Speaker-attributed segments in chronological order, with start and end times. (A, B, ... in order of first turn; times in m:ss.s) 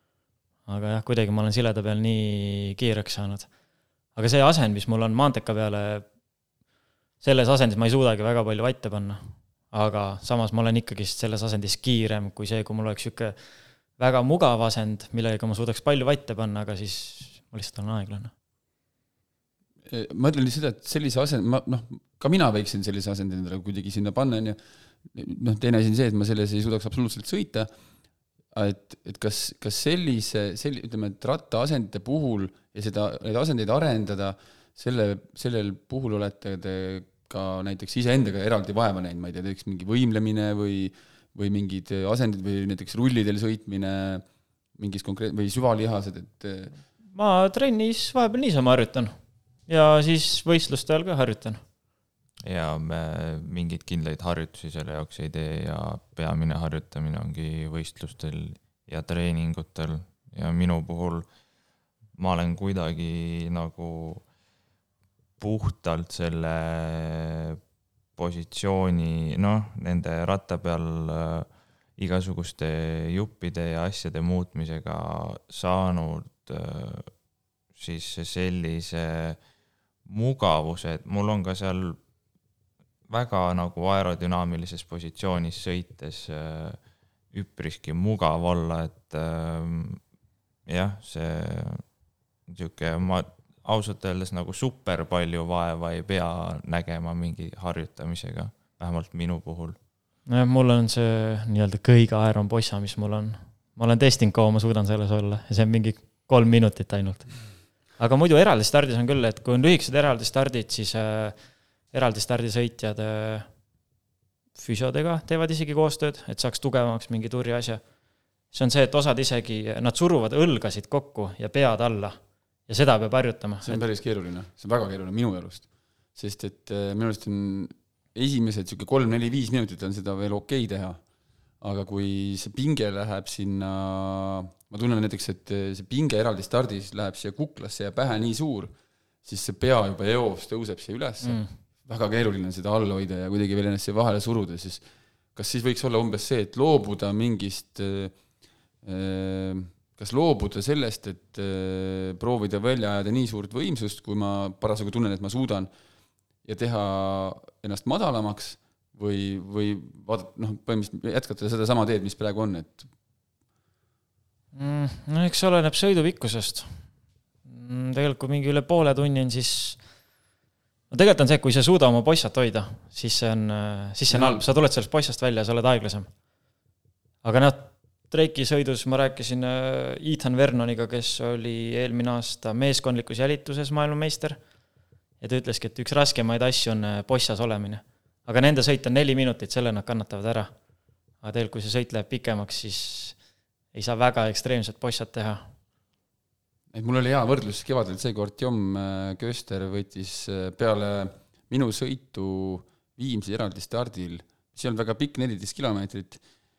0:00.6-0:03.5 A
0:04.1-0:06.0 A
0:07.2-0:13.3 A
0:14.0-0:18.3 A
0:19.9-0:24.6 B
0:25.1-0:27.7 B
0:28.5-0:44.2 B
0:44.8-0:46.8 B
0:47.1-0:49.1 A
0:49.7-0:51.6 A
0:52.4-1:01.3 C
1:02.1-1:04.2 C
1:05.4-1:07.6 C
1:08.2-1:17.1 C
1:17.7-1:19.4 C
1:20.0-1:22.0 C
1:23.1-1:26.8 C
1:27.3-1:30.0 C
1:30.6-1:31.8 C
1:32.5-1:39.8 C
1:40.3-1:51.4 A
1:51.9-1:53.5 A
1:54.6-1:57.8 A
1:58.5-2:03.8 A
2:03.6-2:11.0 B
2:11.6-2:18.7 B
2:19.2-2:24.8 B
2:21.2-2:21.5 A
2:25.3-2:28.1 B
2:28.8-2:35.7 B
2:36.4-2:42.9 B
2:44.5-2:46.8 A
2:47.4-2:49.8 A
2:50.9-2:56.1 A
2:54.1-2:54.4 B
2:57.2-3:04.4 A
3:05.2-3:10.5 A
3:11.2-3:13.2 A
3:13.7-3:15.4 A
3:16.7-3:26.2 B